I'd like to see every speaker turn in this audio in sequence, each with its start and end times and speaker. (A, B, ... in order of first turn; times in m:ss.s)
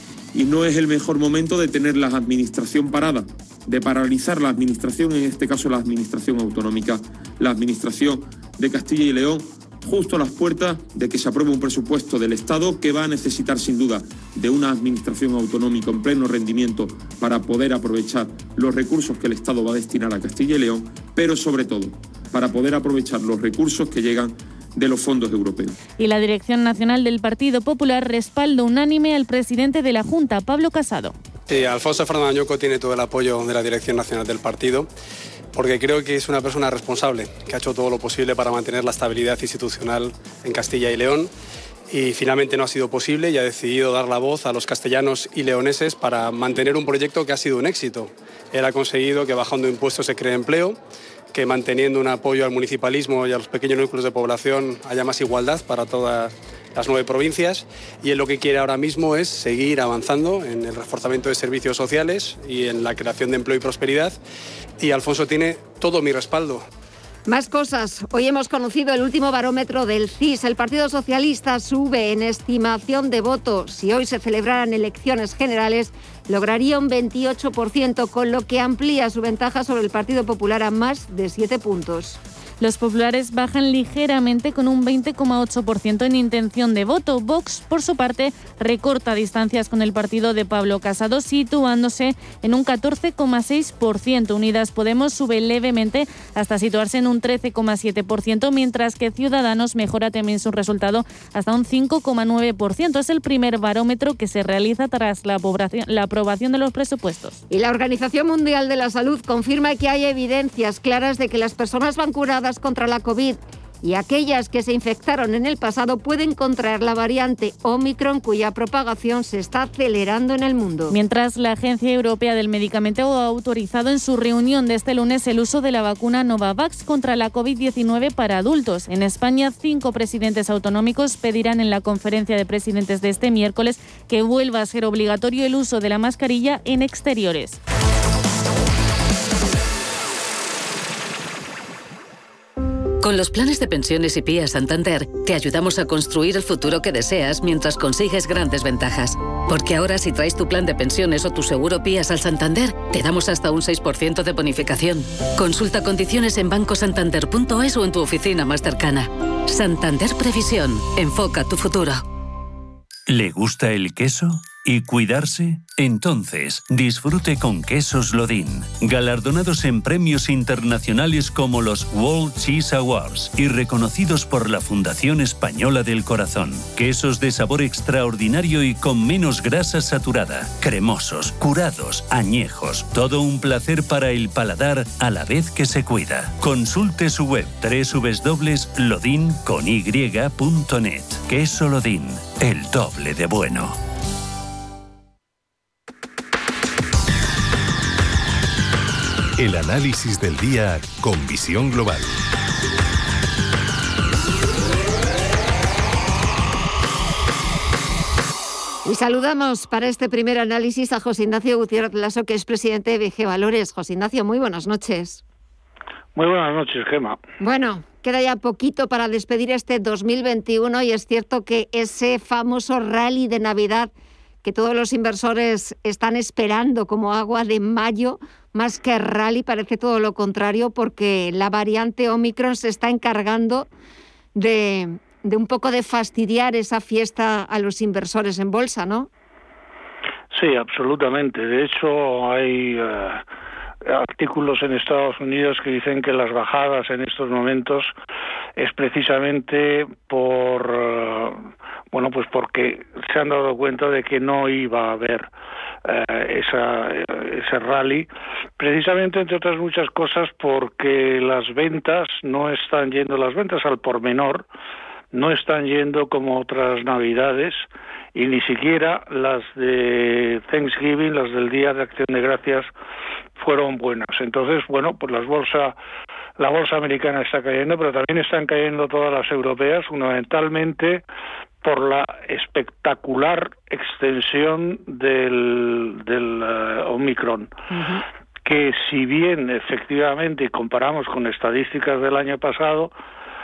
0:00.3-0:25.7 A
0:26.0-0:31.1 B
0:31.5-0:34.9 C
0:35.5-0:41.3 C
0:41.9-0:50.8 C
0:51.3-1:04.2 C
1:04.8-1:06.6 C
1:07.3-1:22.2 D
1:22.6-1:47.4 B
1:47.5-2:00.9 D
2:00.9-2:17.6 B
2:23.0-2:42.0 E
2:43.1-3:13.8 F
3:19.4-3:22.2 G
3:28.8-3:35.2 D
3:36.1-3:37.2 H
3:37.4-3:43.9 D
3:44.4-3:53.7 D
3:54.3-3:59.1 D
4:00.3-4:03.2 H
4:03.8-4:07.9 H
4:08.6-4:15.3 H
4:15.8-4:18.1 H
4:18.6-4:24.5 H
4:25.1-4:32.7 H
4:33.4-4:35.8 H
4:36.4-4:41.0 H
4:41.6-4:47.5 H
4:47.7-4:48.0 D
4:48.4-4:52.9 H